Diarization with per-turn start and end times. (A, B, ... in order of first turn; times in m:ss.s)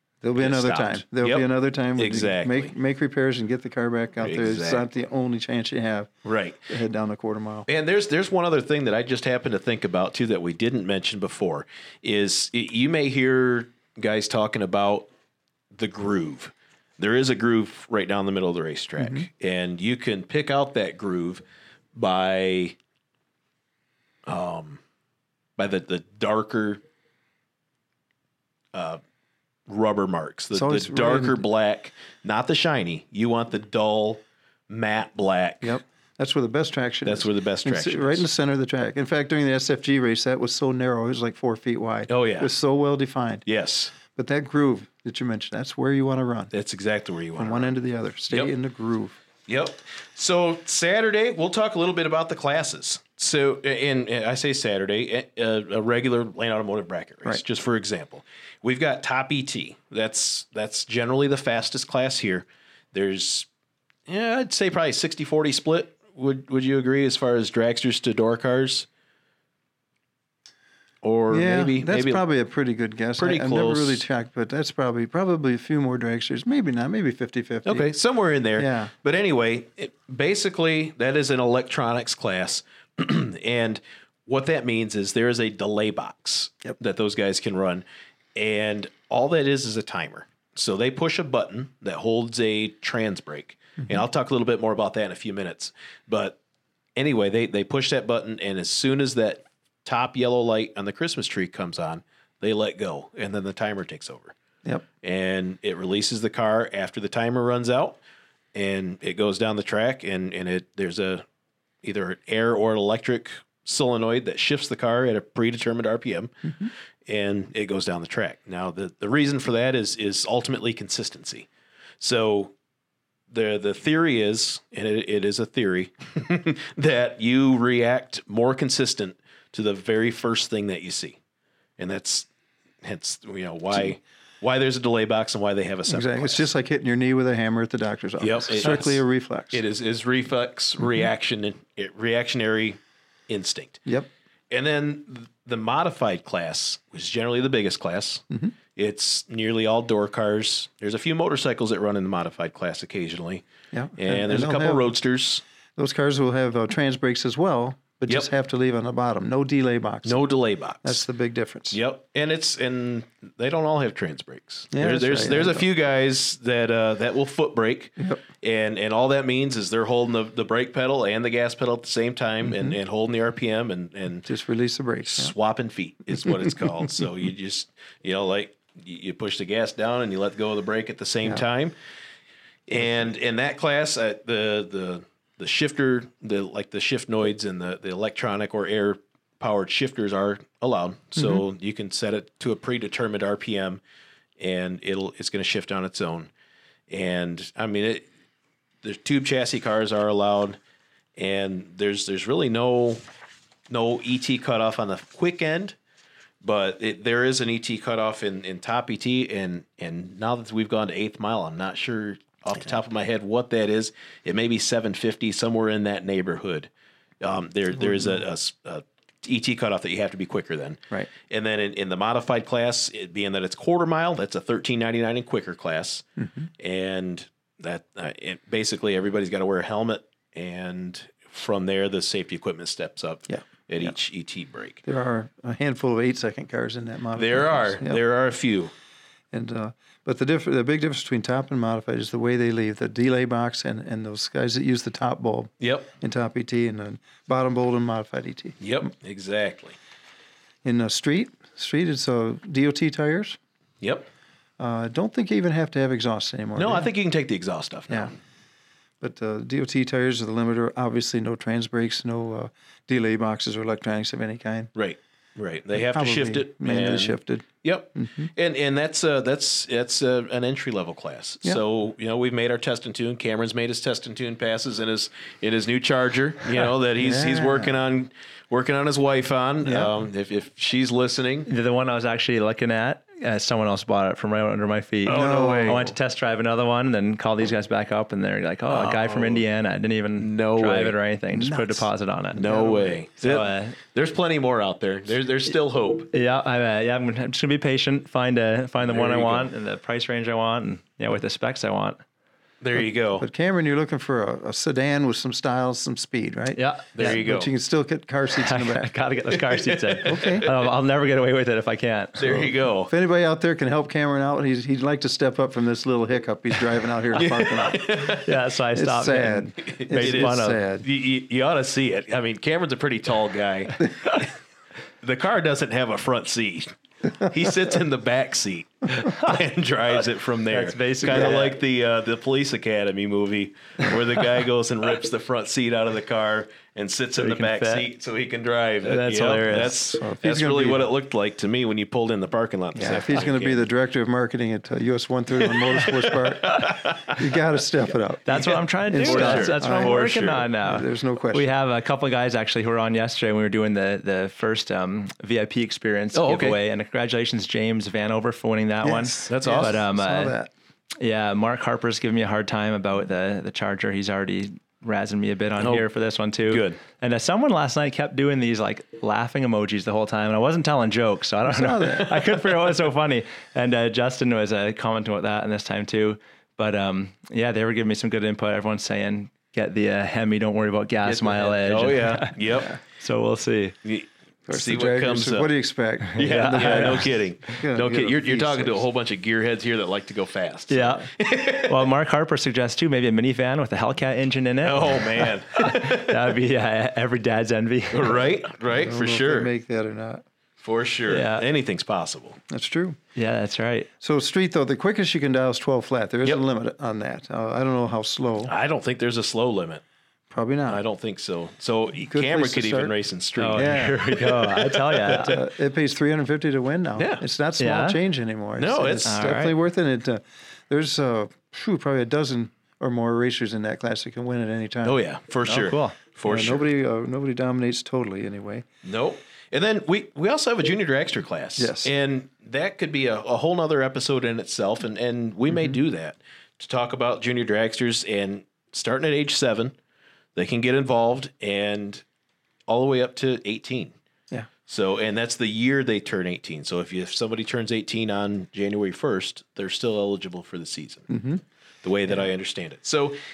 0:00.2-0:06.1 A
0:00.4-0:02.7 B
0:04.2-0:04.8 B
0:06.2-0:06.6 B
0:06.7-0:07.7 A
0:07.7-0:15.1 B
0:15.7-0:21.4 B
0:19.0-0:19.2 A
0:21.9-0:22.8 B
0:24.2-0:24.8 B
0:25.6-0:26.8 B
0:28.7-0:29.0 B
0:29.7-0:35.8 B
0:30.5-0:31.4 A
0:35.6-0:43.4 A
0:37.0-0:38.2 B
0:42.1-0:42.5 B
0:43.4-0:43.9 B
0:44.0-0:46.5 A
0:46.5-0:47.7 B
0:47.4-0:49.2 A
0:49.5-1:03.5 B
1:04.1-1:08.9 B
1:11.0-1:12.2 B
1:11.3-1:17.9 A
1:13.2-1:14.0 B
1:17.6-1:27.8 B
1:18.6-1:18.9 A
1:28.3-1:36.4 B
1:37.0-1:44.3 B
1:45.0-1:48.0 B
1:48.5-1:51.2 B
1:51.8-2:01.5 B
2:02.0-2:02.5 B
2:03.3-2:11.2 B
2:11.8-2:12.3 B
2:12.8-2:16.5 B
2:15.9-2:19.6 A
2:18.2-2:23.8 B
2:24.5-2:28.2 B
2:28.8-2:33.4 B
2:33.7-2:34.9 A
2:34.0-2:35.4 B
2:35.8-2:40.2 A
2:40.0-2:41.0 B
2:40.8-2:41.8 A
2:41.7-2:54.3 B
2:44.7-2:45.7 A
2:52.4-2:52.8 A
2:54.2-2:55.3 A
2:55.1-3:01.7 B
3:02.7-3:13.8 B
3:11.2-3:11.4 A
3:14.4-3:16.3 B
3:16.9-3:18.0 B
3:18.8-3:20.6 B
3:21.2-3:23.0 B
3:23.7-3:25.8 B
3:26.4-3:36.7 B
3:37.2-3:46.0 B
3:37.8-3:38.2 A
3:46.2-3:46.5 A
3:46.6-3:54.8 B
3:53.3-3:53.9 A
3:54.8-3:58.0 A
3:57.1-3:58.7 B
3:59.3-4:08.6 A
4:05.6-4:05.9 B
4:08.6-4:09.8 B
4:10.6-4:13.4 A
4:13.8-4:14.1 B
4:14.6-4:16.9 A
4:16.6-4:18.1 B
4:19.0-4:24.7 A
4:24.7-4:41.5 B
4:25.7-4:28.3 A
4:37.0-4:37.7 A
4:39.6-4:39.9 A
4:41.4-4:52.7 C
4:45.1-4:45.9 B
4:45.1-4:45.9 A
4:48.7-4:49.4 B
4:50.2-4:51.0 B
4:51.3-4:53.0 A
4:52.4-4:56.1 B
4:53.2-4:53.8 C
4:56.1-5:02.0 C
4:58.8-4:59.5 B
5:02.6-5:03.2 B
5:03.2-5:08.9 A
5:06.6-5:07.2 C
5:07.0-5:07.5 B
5:08.3-5:12.4 C
5:09.5-5:10.5 B
5:10.0-5:10.5 A
5:12.2-5:12.9 B
5:12.3-5:17.8 A
5:17.1-5:18.3 B
5:18.0-5:20.6 C
5:18.7-5:20.8 A
5:19.6-5:24.3 B
5:25.0-5:43.7 B
5:29.0-5:29.3 C
5:30.5-5:31.5 C
5:37.2-5:37.8 C
5:38.8-5:39.8 C
5:39.9-5:40.9 A
5:42.7-5:48.2 A
5:45.4-5:47.2 B
5:48.2-6:00.3 C
5:48.3-5:50.5 B
5:48.9-5:50.1 A
5:50.6-5:51.5 A
5:56.1-5:56.6 B
5:58.8-6:00.5 A
5:59.3-5:59.8 B
6:01.0-6:23.7 C
6:05.6-6:05.8 B
6:06.5-6:06.8 B
6:11.5-6:12.3 A
6:21.0-6:22.8 B
6:23.8-6:25.5 B
6:24.5-6:28.8 A
6:26.2-6:27.1 C
6:26.2-6:31.8 B
6:30.7-6:38.2 C
6:34.6-6:36.3 B
6:37.9-6:39.5 B
6:38.7-6:40.2 A
6:40.6-6:42.4 B
6:41.1-6:41.4 C
6:42.5-6:43.0 A
6:43.1-6:43.9 C
6:44.0-6:48.5 A
6:48.4-6:49.8 B
6:50.3-6:50.8 A
6:50.7-6:55.3 B
6:52.0-6:52.9 A
6:53.4-6:55.4 C
6:53.5-6:54.0 A
6:55.1-7:05.0 A
6:57.0-6:57.2 B
6:57.6-6:58.0 C
6:58.6-6:59.2 B
6:59.0-6:59.6 C
7:04.8-7:06.6 B
7:05.4-7:06.0 C
7:06.2-7:08.6 A
7:08.8-7:19.7 B
7:11.6-7:11.9 A
7:20.3-7:22.0 B
7:22.7-7:23.9 B
7:24.7-7:31.1 B
7:31.1-7:31.4 A
7:31.8-7:33.2 B